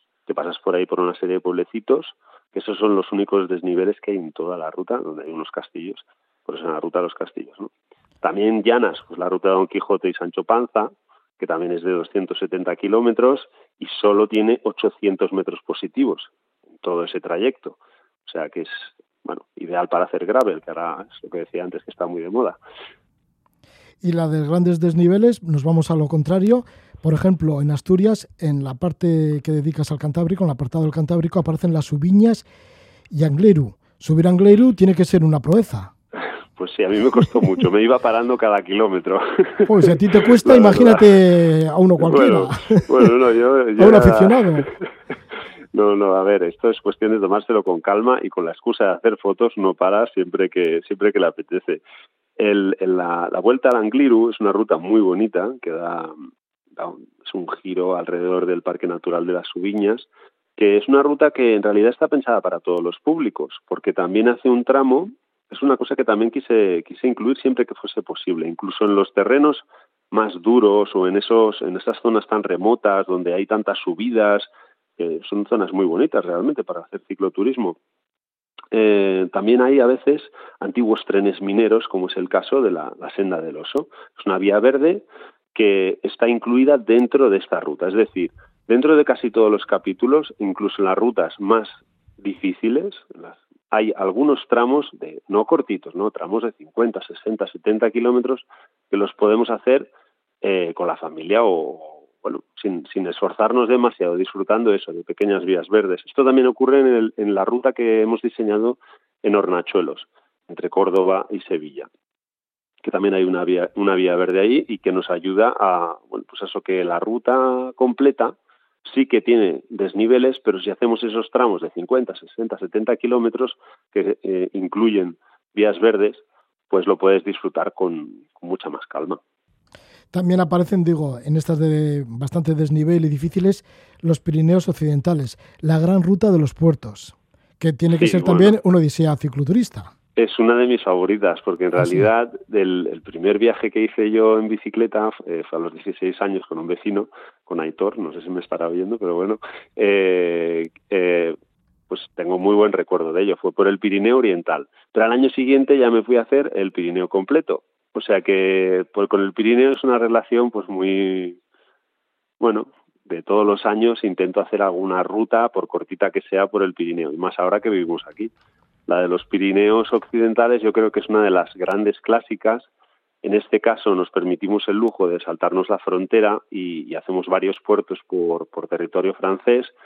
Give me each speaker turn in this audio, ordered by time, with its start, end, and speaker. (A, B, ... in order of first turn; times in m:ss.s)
0:00.3-0:07.7 A
0:08.2-0:16.3 A
0:16.8-0:22.6 A
0:24.0-0:32.4 B
0:33.1-0:35.9 B
0:36.6-0:41.1 A
0:39.6-0:43.1 B
0:42.0-0:44.6 A
0:43.8-0:44.7 B
0:45.7-0:51.8 A
0:52.4-0:56.1 A
0:56.8-1:17.8 A
1:18.7-1:39.9 A
1:40.4-1:51.9 A
1:52.8-2:09.2 A
2:10.1-2:19.9 B
2:17.9-2:18.6 A
2:20.2-2:31.4 A
2:21.8-2:22.1 B
2:31.9-2:41.4 A
2:42.4-2:48.3 A
2:48.9-2:52.7 A
2:53.2-2:59.7 A